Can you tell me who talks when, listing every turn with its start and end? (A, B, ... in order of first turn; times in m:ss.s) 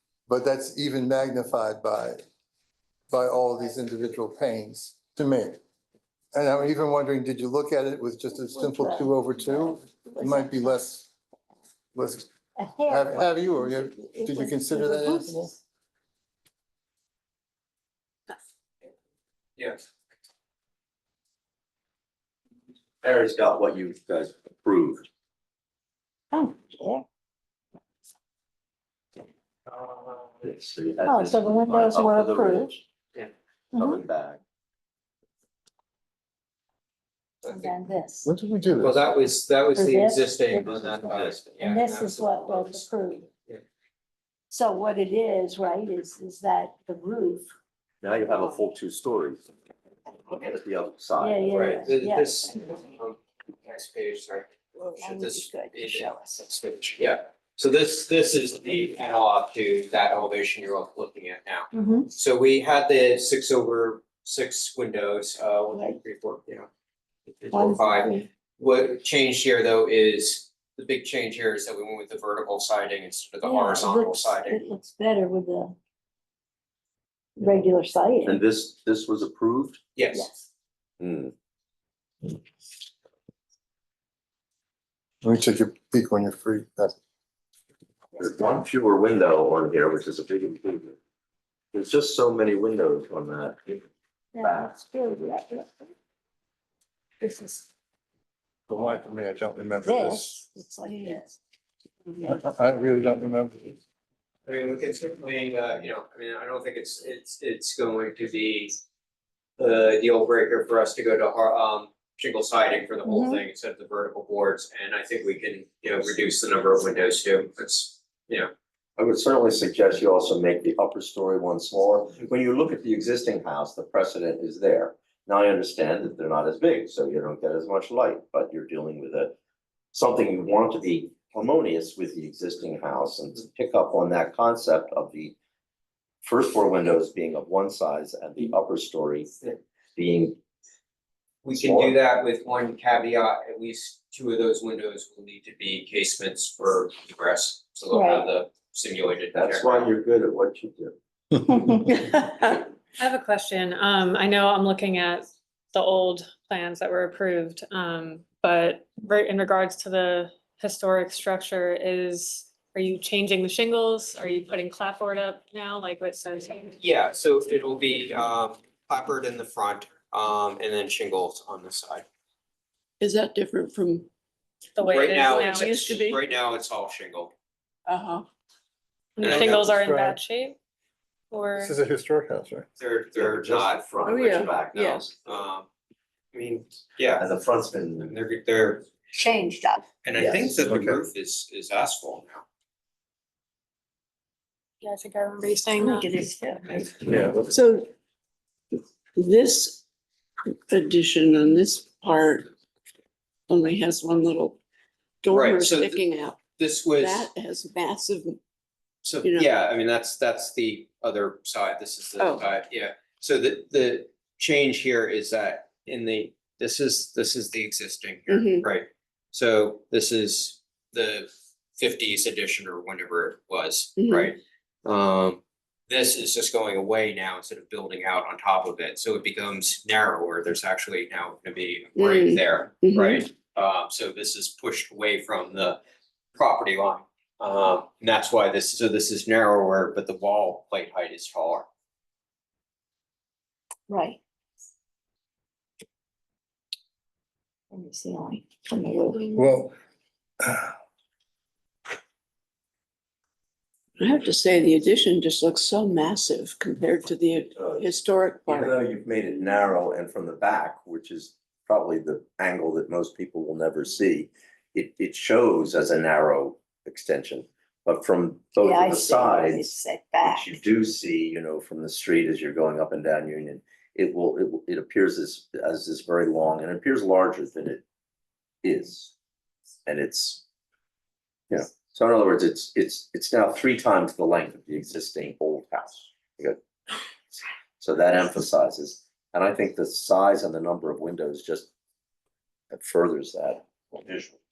0:00.3-0:02.2 A
0:03.1-0:05.6 A
0:06.3-0:11.1 A
0:08.3-0:10.7 B
0:12.0-0:12.3 A
0:12.6-0:15.5 B
0:12.9-0:15.5 A
0:19.6-0:19.8 C
0:23.0-0:25.1 D
0:26.3-0:27.0 B
0:30.4-0:32.8 D
0:31.1-0:32.7 B
0:33.7-0:34.0 B
0:33.8-0:34.4 D
0:37.4-0:38.3 B
0:38.2-0:39.1 A
0:38.8-0:43.6 C
0:39.8-0:43.3 B
0:40.7-0:41.5 D
0:44.5-0:47.5 B
0:48.0-0:49.4 D
0:50.3-0:51.7 D
0:51.2-0:52.5 B
0:51.5-1:06.7 C
0:55.0-0:56.4 B
1:01.7-1:02.1 B
1:05.7-1:06.0 B
1:07.4-1:14.6 C
1:07.5-1:08.3 B
1:13.4-1:15.8 B
1:17.4-1:18.4 B
1:18.2-1:19.8 D
1:20.0-1:20.3 C
1:20.1-1:20.4 B
1:21.0-1:21.3 D
1:25.2-1:26.9 A
1:28.2-1:31.0 D
1:31.7-1:33.8 D
1:34.4-1:35.7 B
1:37.2-1:37.7 B
1:38.7-1:40.4 A
1:39.8-1:41.4 B
1:42.2-1:43.8 A
1:44.5-1:48.8 C
1:49.6-1:58.5 C
1:53.1-1:53.4 E
1:59.0-2:09.4 D
2:09.9-2:15.4 D
2:16.2-2:19.3 D
2:20.0-2:20.4 D
2:21.4-2:29.9 C
2:21.5-2:22.0 D
2:27.9-2:28.3 B
2:29.4-2:31.0 D
2:33.0-2:46.8 F
2:46.8-2:52.1 C
2:53.0-2:54.1 E
2:54.8-2:55.8 F
2:54.8-2:57.3 C
2:55.3-2:56.2 E
2:57.9-2:58.3 E
2:59.2-3:00.6 F
2:59.2-2:59.7 C
2:59.2-3:00.2 A
3:01.3-3:01.8 F
3:01.6-3:02.7 A
3:02.8-3:03.9 C
3:03.2-3:05.1 D
3:04.0-3:05.1 E
3:04.5-3:05.7 C
3:06.3-3:07.2 C
3:07.2-3:08.2 D
3:08.0-3:08.9 C
3:09.2-3:09.9 B
3:10.0-3:12.4 C
3:10.7-3:11.0 A
3:14.8-3:16.1 F
3:15.8-3:17.2 B
3:17.1-3:17.4 A
3:17.5-3:17.9 E
3:19.2-3:19.8 E
3:20.7-3:22.5 E
3:23.5-3:24.6 E
3:25.2-3:28.4 E
3:25.3-3:27.3 C
3:29.0-3:55.8 C
3:29.2-3:29.5 E
3:32.2-3:32.5 E
3:38.3-3:38.7 E
3:44.0-3:44.3 E
3:52.0-3:53.3 E
3:56.4-4:01.7 C
4:03.9-4:04.2 B
4:07.7-4:09.2 B
4:09.3-4:09.7 A
4:10.4-4:10.7 A
4:14.0-4:18.7 E
4:17.6-4:17.8 D
4:18.5-4:37.8 D
4:28.6-4:30.5 B
4:38.6-4:39.1 D
4:39.9-4:40.4 D
4:41.5-4:46.6 D
4:47.8-4:51.7 D
4:52.7-4:54.4 D